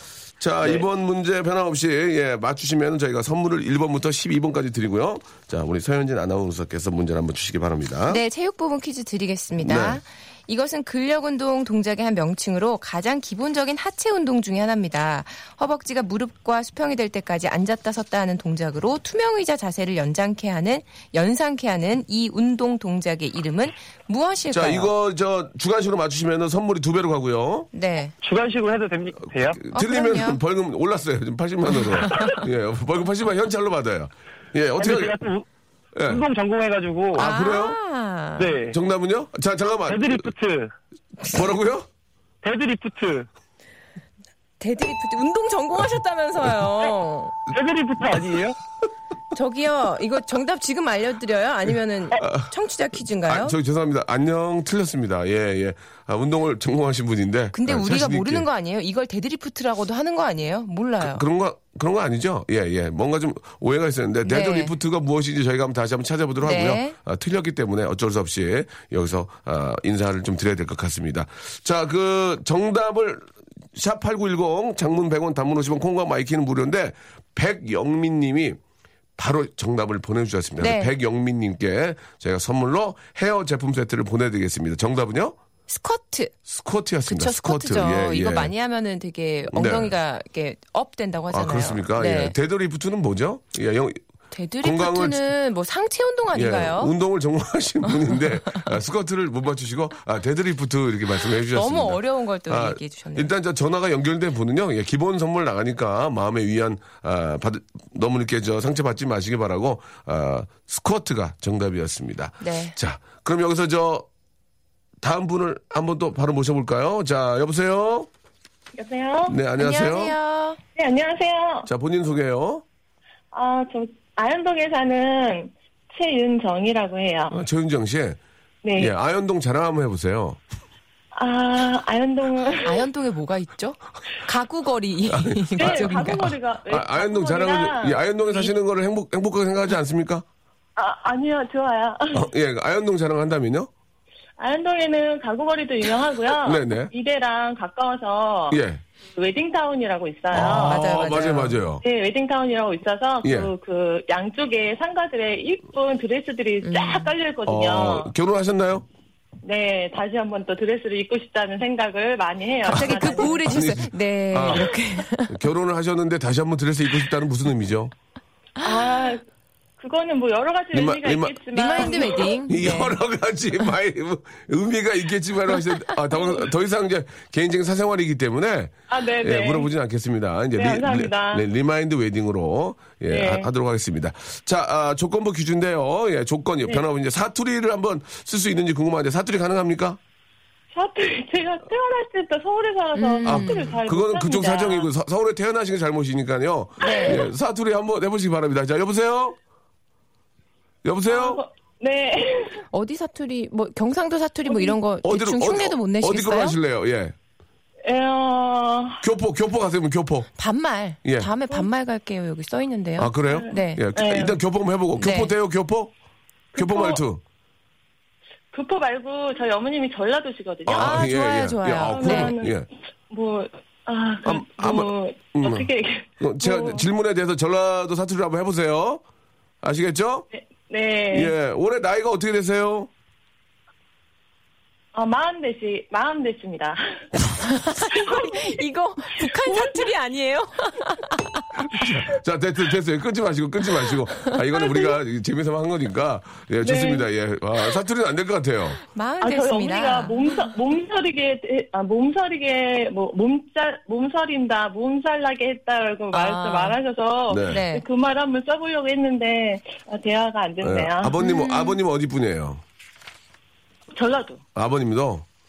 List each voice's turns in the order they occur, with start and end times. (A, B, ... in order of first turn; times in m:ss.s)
0:00.4-0:08.2 A
0:08.1-0:24.9 B
0:09.6-0:10.0 A
0:24.5-0:27.7 A
0:27.7-0:28.1 B
0:28.2-0:29.6 C
0:29.6-0:35.2 A
0:29.7-0:30.4 B
0:34.8-0:35.5 C
0:36.0-0:36.2 A
0:36.0-0:37.3 C
0:37.1-0:38.5 B
0:37.2-0:37.8 A
0:38.4-0:38.8 C
0:38.7-0:40.3 A
0:39.8-0:40.7 C
0:41.3-0:41.9 A
0:42.4-0:43.3 C
0:44.6-0:47.3 B
0:47.5-0:48.6 C
0:49.3-0:53.6 B
0:52.2-0:52.5 A
0:53.2-0:58.5 A
0:57.5-1:01.2 B
1:01.0-1:18.6 A
1:04.2-1:04.7 B
1:06.4-1:07.0 B
1:19.2-1:25.4 A
1:20.6-1:20.9 B
1:25.7-1:26.3 B
1:26.5-1:28.5 A
1:27.1-1:32.4 B
1:29.5-1:29.9 A
1:31.3-1:34.0 A
1:34.3-1:36.9 B
1:34.6-1:35.3 A
1:36.3-1:54.1 A
1:41.5-1:43.3 B
1:52.4-1:52.8 B
1:55.0-1:58.1 A
1:58.8-1:59.4 D
1:59.3-2:00.1 A
1:59.6-2:00.6 B
2:00.8-2:01.7 D
2:01.6-2:02.6 A
2:03.3-2:07.4 D
2:07.3-2:08.2 A
2:08.6-2:08.9 D
2:08.8-2:10.4 A
2:11.1-2:12.8 D
2:12.6-2:16.3 B
2:15.1-2:20.2 A
2:15.6-2:18.5 D
2:20.8-2:22.3 D
2:22.1-2:23.7 A
2:24.4-2:28.6 D
2:26.4-2:26.9 A
2:28.5-2:28.8 A
2:29.1-2:30.9 D
2:30.3-2:31.8 A
2:30.4-2:31.6 B
2:31.8-2:38.1 D
2:33.2-2:33.5 A
2:36.6-2:37.1 B
2:37.5-2:38.9 A
2:39.4-2:43.5 D
2:42.7-2:45.4 B
2:42.8-2:47.9 A
2:48.6-2:49.2 D
2:49.8-2:52.4 D
2:50.7-2:51.4 A
2:51.5-2:53.0 B
2:52.4-3:10.0 A
2:58.9-2:59.7 D
3:00.6-3:01.5 D
3:03.1-3:03.5 D
3:10.7-3:14.9 D
3:13.0-3:13.8 B
3:13.2-3:19.4 A
3:16.8-3:17.3 B
3:16.9-3:17.2 D
3:20.8-3:21.4 A
3:21.1-3:22.6 D
3:22.7-3:26.6 B
3:24.5-3:24.8 D
3:25.0-3:27.1 A
3:27.9-3:29.0 D
3:29.0-3:30.3 A
3:30.4-3:33.8 B
3:31.0-3:31.3 A
3:33.0-3:35.9 A
3:33.3-3:34.4 D
3:35.0-3:35.3 B
3:36.5-3:37.0 D
3:36.6-3:37.2 A
3:38.5-3:41.0 D
3:40.7-3:42.7 A
3:40.8-3:42.4 B
3:41.7-3:46.8 D
3:44.2-3:45.7 A
3:46.2-3:49.0 A
3:49.6-3:50.3 A
3:50.3-3:51.3 D
3:51.1-3:52.9 A
3:54.9-3:56.8 D
3:57.5-4:01.2 B
3:57.9-3:58.5 D
3:59.4-3:59.9 D
4:01.7-4:08.8 A
4:06.6-4:07.1 D
4:08.9-4:10.4 B
4:09.2-4:21.2 D
4:16.1-4:16.8 B
4:17.3-4:17.6 A
4:17.5-4:17.9 B
4:20.6-4:22.6 A
4:21.2-4:21.8 B
4:23.9-4:24.4 D
4:24.6-4:25.3 A